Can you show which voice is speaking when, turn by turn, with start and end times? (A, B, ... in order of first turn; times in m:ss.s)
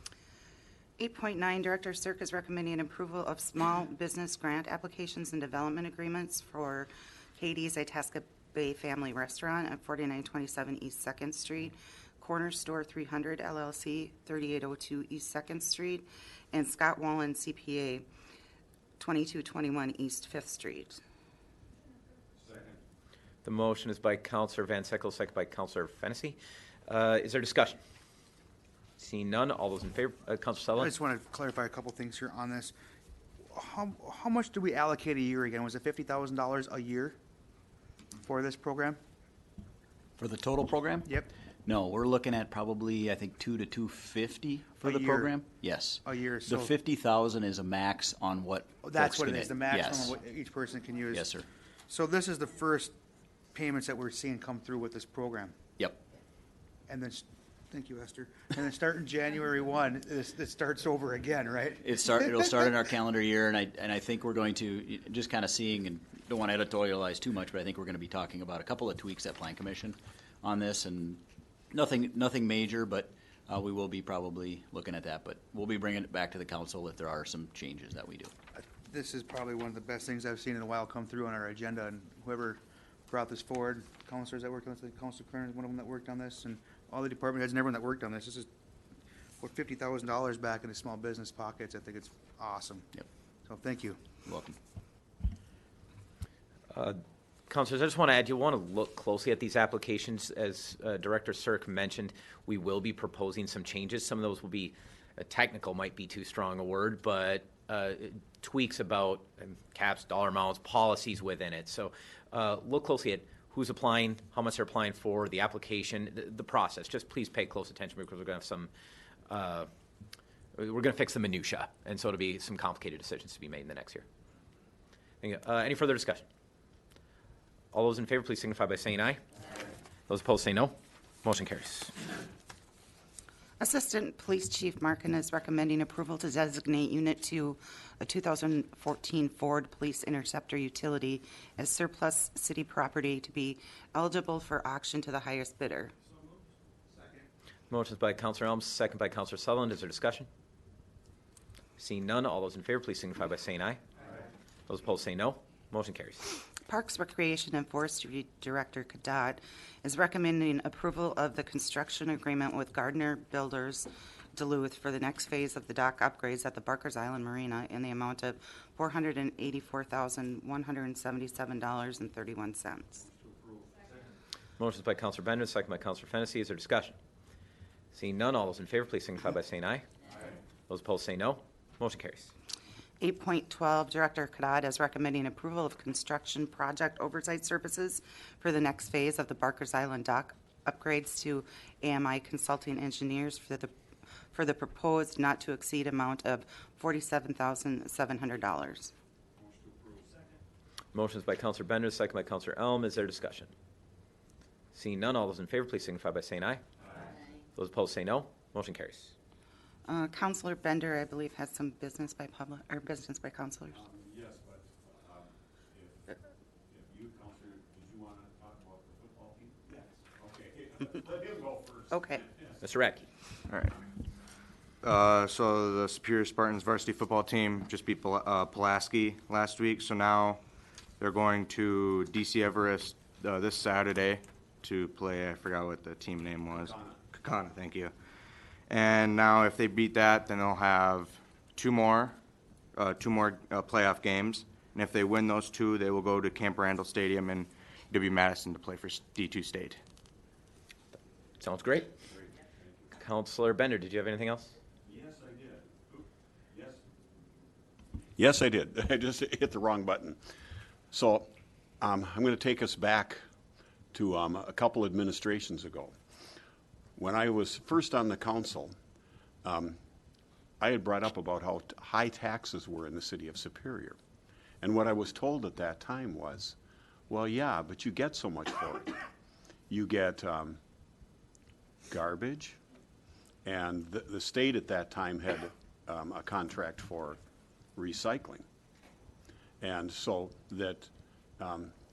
0:01.0-0:18.0 A
0:19.0-0:21.0 A
0:23.4-0:27.8 B
0:29.0-0:30.9 B
0:30.8-0:32.7 C
0:33.5-0:37.2 C
0:38.2-0:39.0 C
0:40.2-0:50.1 D
0:41.1-0:41.3 C
0:44.8-0:45.4 C
0:46.0-0:46.7 C
0:48.8-0:51.3 C
0:51.1-0:51.5 D
0:51.9-0:52.9 C
0:53.5-0:55.6 C
0:56.9-1:02.6 C
1:01.8-1:18.3 D
1:18.6-1:28.5 C
1:29.4-1:32.9 C
1:33.5-1:34.1 C
1:34.2-1:34.6 D
1:36.7-1:58.7 B
1:59.3-1:59.7 B
2:00.6-2:04.0 B
2:05.2-2:06.2 B
2:07.7-2:09.2 B
2:10.1-2:12.0 B
2:13.6-2:25.9 A
2:27.7-2:30.3 B
2:31.8-2:33.8 B
2:34.7-2:36.3 B
2:36.7-2:53.0 A
2:54.6-2:57.0 B
2:57.9-2:59.8 B
3:00.7-3:02.3 B
3:03.0-3:13.7 A
3:14.3-3:18.9 A
3:20.9-3:23.5 B
3:24.7-3:26.6 B
3:27.6-3:29.1 B
3:29.9-3:33.8 A
3:33.8-3:35.2 E
3:36.8-3:42.5 E
3:41.9-3:42.2 A
3:42.6-3:43.1 B
3:43.5-3:43.7 F
3:44.8-3:50.4 F
3:51.0-3:57.9 F
3:58.7-4:02.2 F
4:02.8-4:09.8 F
4:11.4-4:11.9 B
4:13.0-4:14.6 B
4:18.2-4:20.2 E
4:20.9-4:21.3 E
4:21.8-4:23.2 E
4:23.9-4:26.0 E
4:27.0-4:28.8 E
4:29.4-4:29.8 E
4:30.6-4:34.0 E
4:34.6-4:36.6 E
4:37.1-4:39.0 E
4:39.7-4:40.6 E
4:41.9-4:42.6 E
4:43.4-4:47.2 E
4:47.8-4:48.4 E
4:49.6-4:51.7 E